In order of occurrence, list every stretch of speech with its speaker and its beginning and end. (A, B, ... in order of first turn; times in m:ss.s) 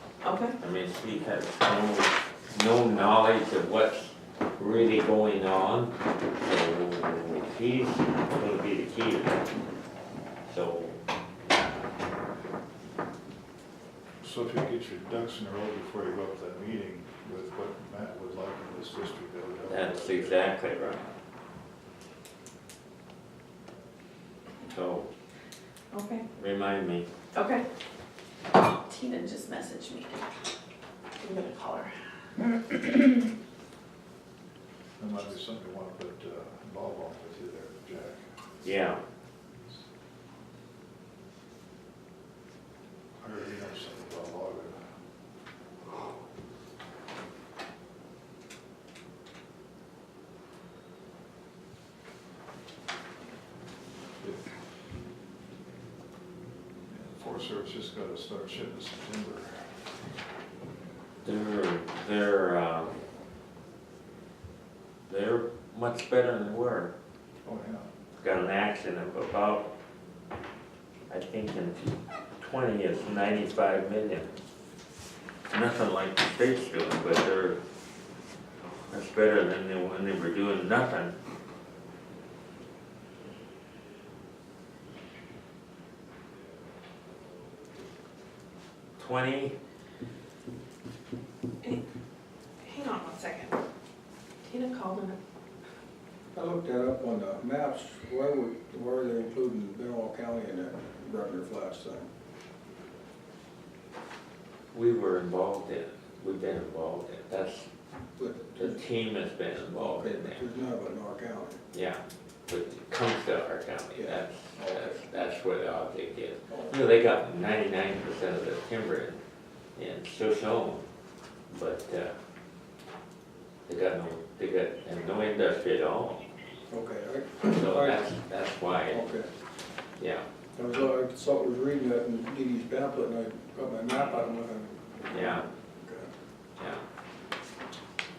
0:00.2-0:00.5 A
0:00.6-0:09.4 B
0:10.4-0:11.0 B
0:14.2-0:20.4 C
0:19.7-0:21.1 B
0:24.6-0:25.1 B
0:25.9-0:26.2 A
0:26.4-0:27.1 B
0:27.3-0:27.6 A
0:28.8-0:30.2 A
0:31.2-0:31.9 A
0:35.0-0:38.3 C
0:38.6-0:39.0 B
0:43.2-0:44.8 C
0:54.2-0:54.5 C
0:56.9-0:59.7 C
1:01.2-1:02.9 B
1:05.1-1:06.9 B
1:07.4-1:07.9 C
1:08.2-1:09.7 B
1:11.1-1:14.3 B
1:15.5-1:17.6 B
1:18.9-1:21.1 B
1:29.0-1:29.5 B
1:32.6-1:33.6 A
1:34.4-1:35.2 A
1:36.3-1:42.1 D
1:44.7-1:47.7 B
1:48.2-1:48.8 D
1:48.6-1:50.4 B
1:49.6-1:51.6 D
1:51.7-1:59.2 B
1:54.0-1:54.9 D
1:56.5-1:56.7 D
1:59.8-2:00.8 B
2:01.5-2:02.2 B
2:03.7-2:06.2 B
2:06.7-2:08.1 D
2:07.4-2:09.0 B
2:08.9-2:09.3 D
2:10.0-2:10.2 B
2:10.6-2:16.1 D
2:15.1-2:15.5 B